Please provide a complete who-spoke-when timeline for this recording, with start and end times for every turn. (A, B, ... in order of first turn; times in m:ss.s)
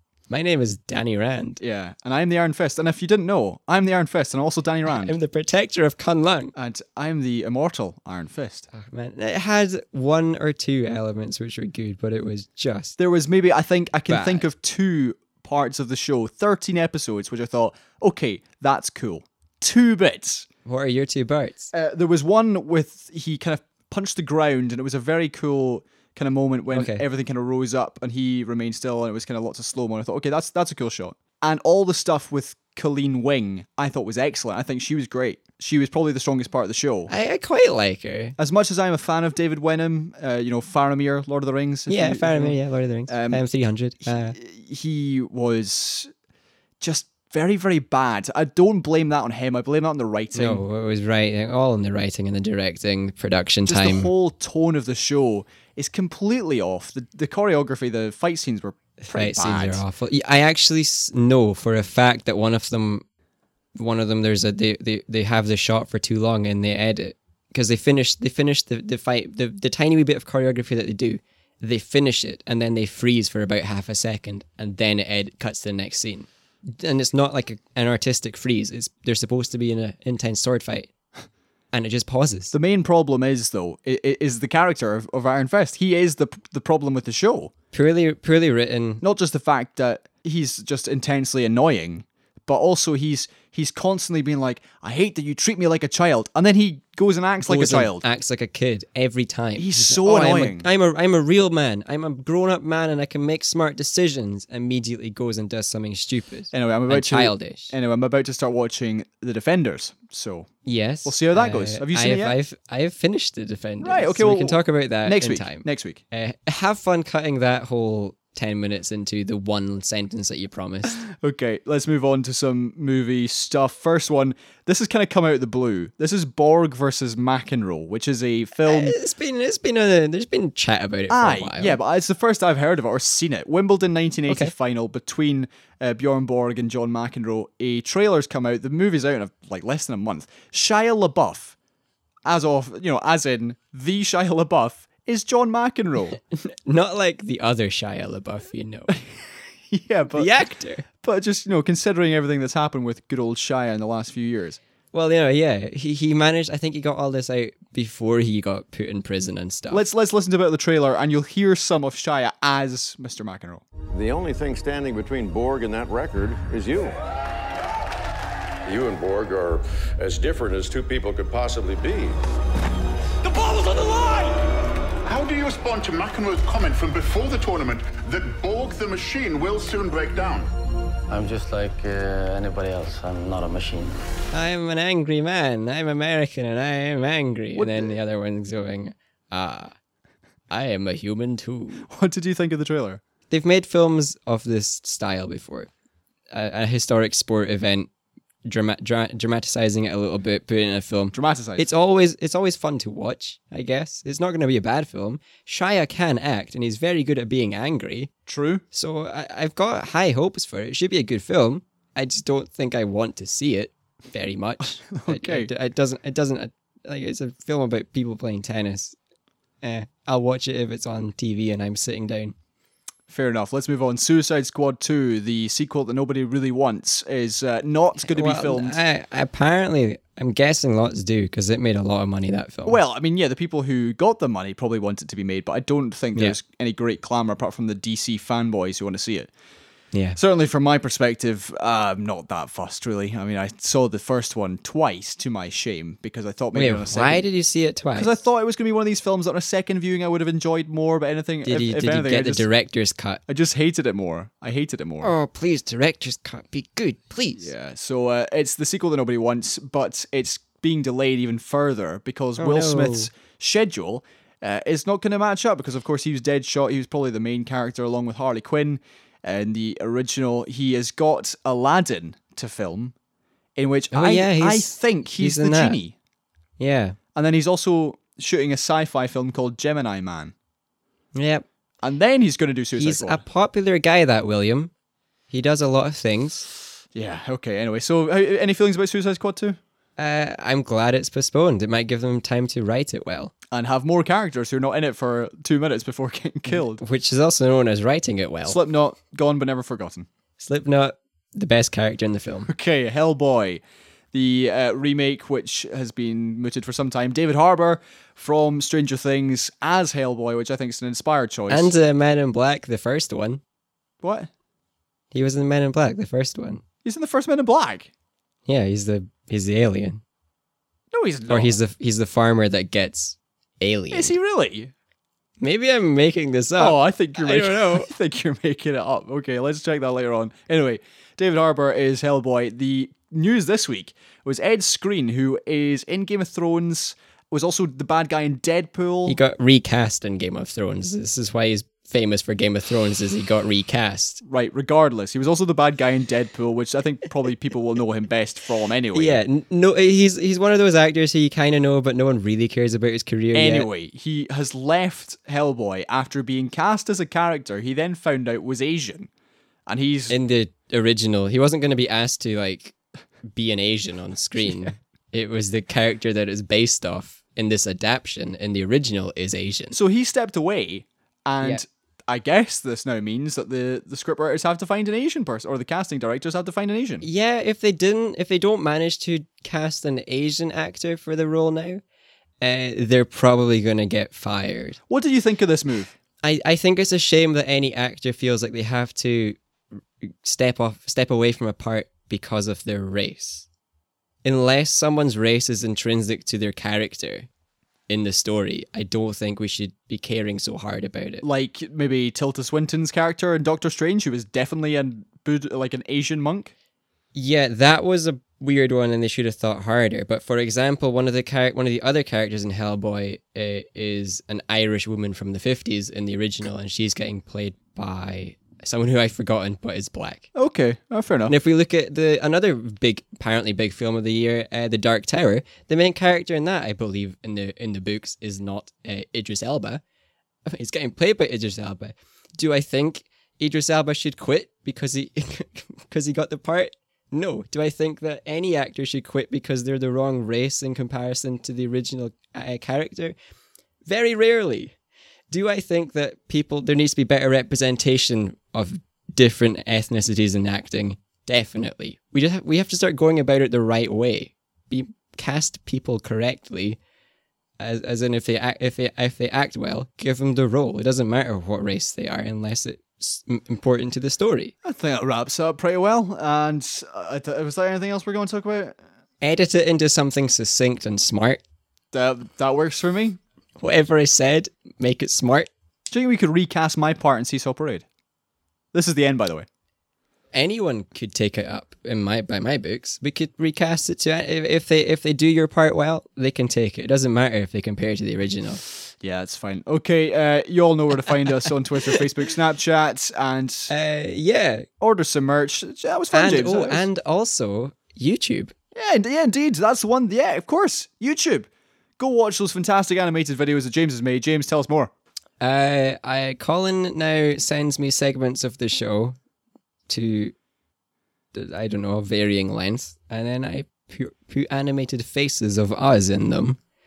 0:00.3-0:01.6 A
0:01.6-0:05.2 B
0:04.9-0:06.5 A
0:06.5-0:08.7 B
0:08.7-0:13.0 A
0:13.0-0:20.5 B
0:14.1-0:14.4 A
0:20.6-0:21.7 A
0:21.7-0:37.1 B
0:26.7-0:27.0 A
0:37.1-0:38.4 A
0:38.4-0:42.6 B
0:41.9-0:44.4 A
0:43.1-0:43.4 B
0:44.0-0:46.1 B
0:46.8-0:50.6 B
0:50.3-0:54.1 A
0:53.6-0:59.8 B
0:59.0-1:03.0 A
1:03.7-1:20.9 A
1:21.7-1:22.5 A
1:22.5-1:27.5 B
1:27.7-1:29.0 A
1:29.0-1:38.0 B
1:37.4-1:47.7 A
1:39.6-1:40.7 B
1:46.5-1:50.5 B
1:50.6-2:01.0 A
1:51.0-1:52.4 B
1:53.8-1:56.0 B
2:00.9-2:09.0 B
2:08.6-2:11.8 A
2:11.1-2:21.5 B
2:22.2-2:26.2 B
2:26.4-2:29.0 A
2:29.7-2:30.4 B
2:30.1-2:30.8 A
2:31.0-2:34.6 B
2:34.9-2:39.8 A
2:39.7-2:43.6 B
2:43.9-2:46.9 C
2:48.6-2:52.2 C
2:53.2-2:54.5 D
2:55.0-3:00.5 D
3:01.1-3:04.0 E
3:04.3-3:09.7 A
3:07.5-3:08.0 B
3:10.5-3:11.9 A
3:11.9-3:13.0 B
3:13.3-3:15.7 A
3:16.3-3:17.9 A
3:18.4-3:28.1 A
3:21.1-3:21.7 B
3:28.3-3:28.6 B
3:28.7-3:38.9 A
3:34.9-3:35.5 B
3:39.6-3:42.3 A
3:43.1-3:48.8 B
3:48.0-3:52.8 A
3:52.6-3:59.3 B
3:59.9-4:00.2 A
4:00.2-4:07.3 B
4:06.5-4:08.1 A
4:07.9-4:12.5 B
4:11.4-4:13.2 A
4:13.3-4:15.1 B
4:15.0-4:17.5 A
4:17.4-4:32.9 B
4:22.4-4:23.1 A
4:33.6-4:35.9 B
4:33.9-4:35.8 A
4:36.6-4:37.0 A
4:37.1-4:40.3 B
4:41.1-4:41.4 A
4:41.8-4:43.2 B
4:42.8-4:44.7 A
4:45.3-4:46.5 A
4:46.9-4:49.6 B
4:50.0-4:53.3 A
4:53.5-4:56.8 B
4:56.5-4:58.6 A
4:58.4-5:00.1 B
5:00.4-5:02.5 A
5:02.5-5:11.7 B
5:11.5-5:13.4 A
5:14.0-5:14.3 B
5:15.1-5:16.6 A
5:16.8-5:17.9 B
5:18.4-5:20.0 A
5:20.9-5:21.6 B
5:21.3-5:24.1 A
5:23.9-5:24.7 B
5:25.4-5:27.9 A
5:26.6-5:39.2 B
5:39.0-5:44.2 A
5:44.2-5:49.2 B
5:48.9-5:53.7 A
5:53.3-5:59.1 B
5:59.7-6:00.2 B
6:00.1-6:02.7 A
6:03.3-6:09.8 A
6:09.7-6:17.0 B
6:17.0-6:21.8 A
6:22.4-6:24.8 A
6:24.9-6:25.9 B
6:26.2-6:29.4 A
6:30.0-6:33.4 A
6:34.2-6:37.3 A
6:37.9-6:41.2 A
6:41.2-6:46.5 B
6:47.1-7:00.3 A
7:00.3-7:01.3 B
7:01.3-7:09.8 A
7:10.4-7:23.1 A
7:23.9-7:24.7 A
7:25.3-7:36.8 A
7:37.6-7:44.5 A
7:44.6-7:48.8 B
7:49.2-7:51.4 A
7:51.9-7:53.2 B
7:53.6-7:55.5 A
7:55.9-7:57.8 B
7:58.7-7:59.5 B
8:00.3-8:08.6 A
8:09.0-8:13.7 B
8:13.7-8:14.7 A
8:14.8-8:16.9 B
8:16.1-8:18.5 A
8:18.7-8:24.9 B
8:25.4-8:29.2 A
8:29.9-8:30.3 A
8:31.3-8:36.6 A